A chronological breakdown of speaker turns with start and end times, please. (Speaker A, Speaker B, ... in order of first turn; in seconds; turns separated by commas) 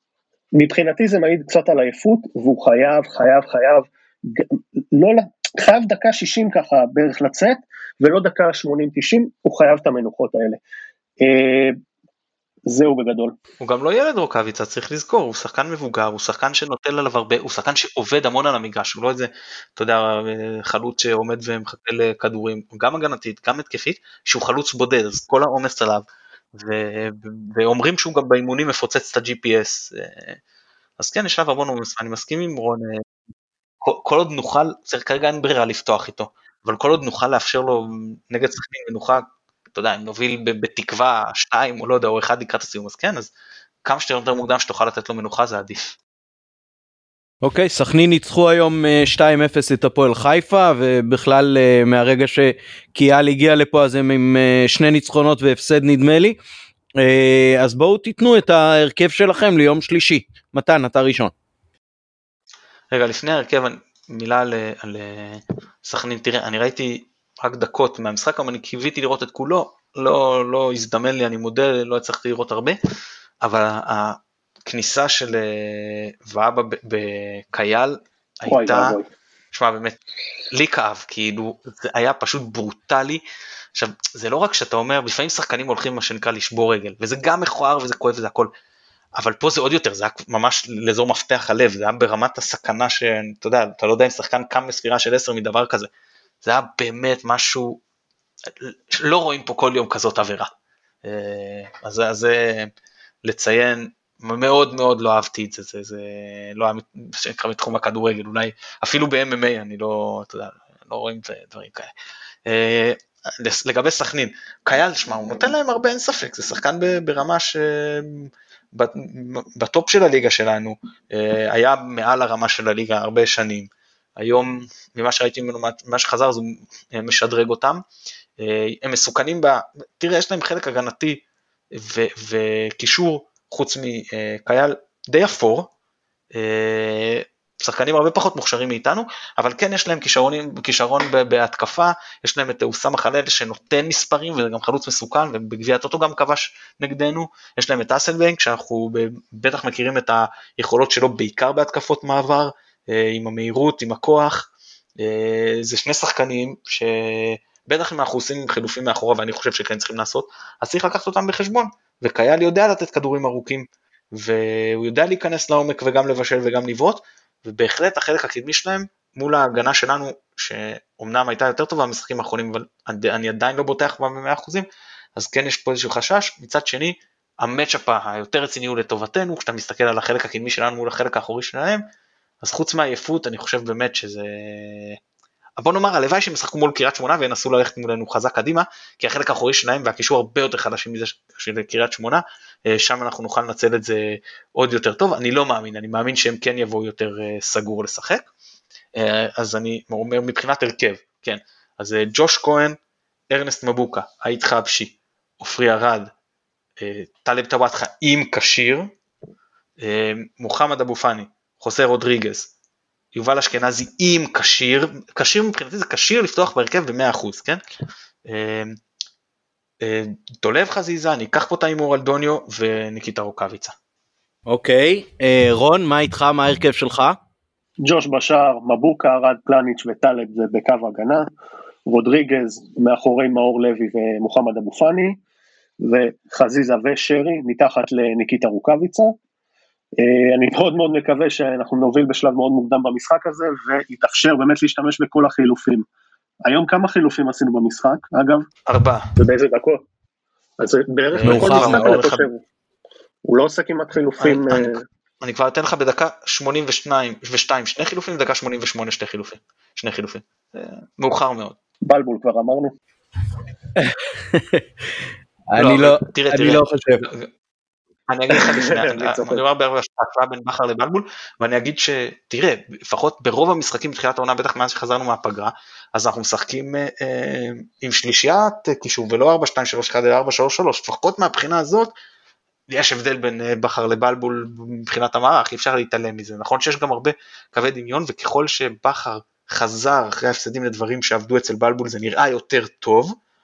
Speaker A: 0.5-10.6, Speaker A: 11.2-11.8, Speaker A: 12.7-13.3, Speaker B: 13.6-30.4, Speaker B: 31.0-33.0, Speaker B: 33.8-43.3, Speaker B: 43.8-46.0, Speaker C: 47.4-56.4, Speaker C: 57.0-61.3, Speaker B: 62.9-72.8, Speaker B: 73.4-78.9, Speaker A: 78.5-79.1, Speaker B: 79.5-80.0, Speaker B: 80.5-83.2, Speaker B: 83.7-88.5, Speaker B: 89.2-95.9, Speaker B: 96.4-97.8, Speaker B: 98.6-100.5, Speaker B: 101.0-102.7, Speaker B: 103.2-111.9, Speaker B: 112.5-127.8, Speaker B: 128.4-131.2, Speaker B: 131.7-135.7, Speaker B: 136.3-181.8, Speaker B: 182.4-185.0, Speaker B: 185.6-198.3, Speaker B: 198.9-202.8, Speaker B: 203.3-206.1, Speaker B: 206.8-208.9, Speaker B: 209.8-212.5, Speaker B: 213.1-217.6, Speaker B: 218.2-218.8, Speaker B: 219.8-223.7, Speaker C: 224.5-227.2, Speaker A: 227.8-231.3, Speaker A: 231.8-235.2, Speaker A: 235.8-239.1, Speaker A: 240.0-245.8, Speaker A: 246.4-248.5, Speaker B: 248.7-249.1, Speaker A: 249.2-249.8, Speaker A: 250.6-252.4, Speaker B: 251.1-252.2, Speaker C: 251.2-252.0, Speaker A: 253.2-254.8, Speaker B: 254.2-261.6, Speaker A: 261.8-262.7, Speaker C: 263.8-267.1, Speaker B: 265.6-267.3, Speaker B: 268.1-281.9, Speaker A: 268.3-269.4, Speaker B: 282.7-293.1